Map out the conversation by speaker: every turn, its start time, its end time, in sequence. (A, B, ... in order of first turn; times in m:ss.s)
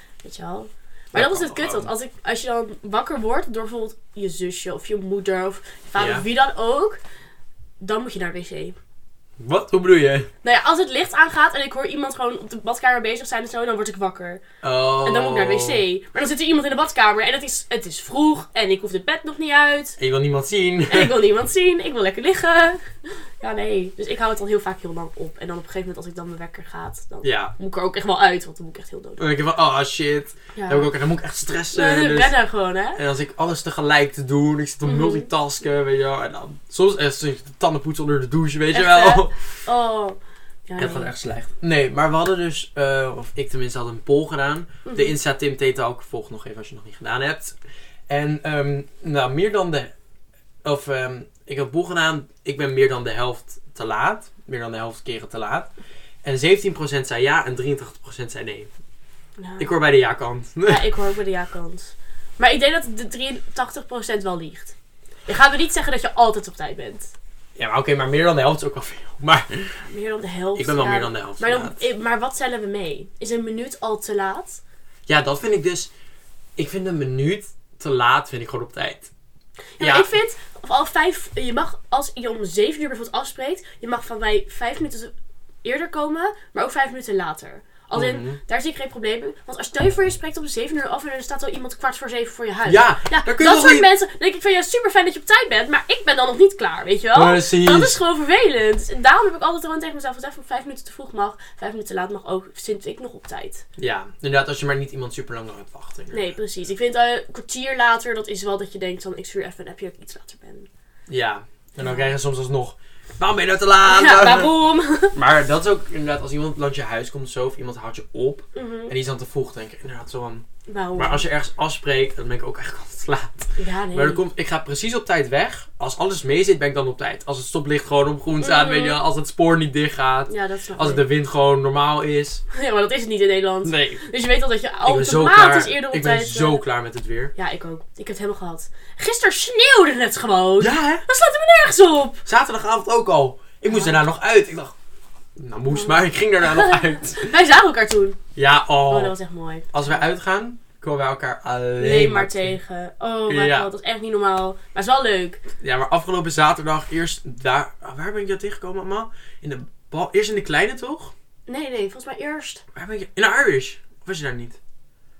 0:00.2-0:07.0 A
0:01.1-0:01.9 B
0:06.0-0:06.2 B
0:07.8-0:08.8 A
0:09.4-0:10.3 B
0:10.4-0:14.4 A
0:14.6-0:15.8 B
0:15.0-0:20.0 A
0:20.0-0:21.2 B
0:20.9-0:29.2 A
0:27.2-0:27.5 B
0:29.2-0:32.4 B
0:30.6-0:30.9 A
0:31.7-0:33.0 A
0:32.9-0:39.3 B
0:34.8-0:35.3 A
0:38.7-0:41.1 A
0:40.8-0:47.6 B
0:44.8-0:45.2 A
0:48.1-0:49.9 B
0:50.6-0:55.7 B
0:56.2-0:58.7 B
0:59.4-0:59.7 A
0:59.6-1:00.9 B
1:00.7-1:04.7 A
1:05.3-1:07.1 A
1:07.6-1:09.7 B
1:09.8-1:14.6 A
1:10.5-1:11.8 B
1:15.1-1:15.9 B
1:16.6-1:19.1 B
1:19.8-1:25.1 A
1:19.8-1:20.1 B
1:25.6-1:43.6 A
1:27.9-1:28.4 B
1:32.6-1:33.9 B
1:37.1-1:38.0 B
1:43.8-1:46.3 B
1:46.1-1:50.7 A
1:51.1-1:54.5 B
1:51.8-1:52.1 A
1:53.8-1:55.2 A
1:55.1-2:00.4 B
1:58.5-1:58.9 A
2:00.7-2:01.2 A
2:01.0-2:12.4 B
2:03.6-2:04.2 A
2:08.4-2:09.0 A
2:10.3-2:11.0 A
2:12.5-2:16.6 A
2:13.6-2:14.0 B
2:14.8-2:17.3 B
2:17.4-2:22.2 A
2:20.6-2:21.0 B
2:22.2-2:24.7 B
2:23.7-2:24.0 A
2:25.4-2:27.3 B
2:25.7-2:28.2 A
2:28.4-2:29.1 B
2:28.9-2:29.7 A
2:29.7-2:32.6 B
2:31.8-2:35.4 A
2:33.3-2:33.7 B
2:35.6-2:41.1 B
2:41.5-2:42.6 A
2:42.7-2:44.6 B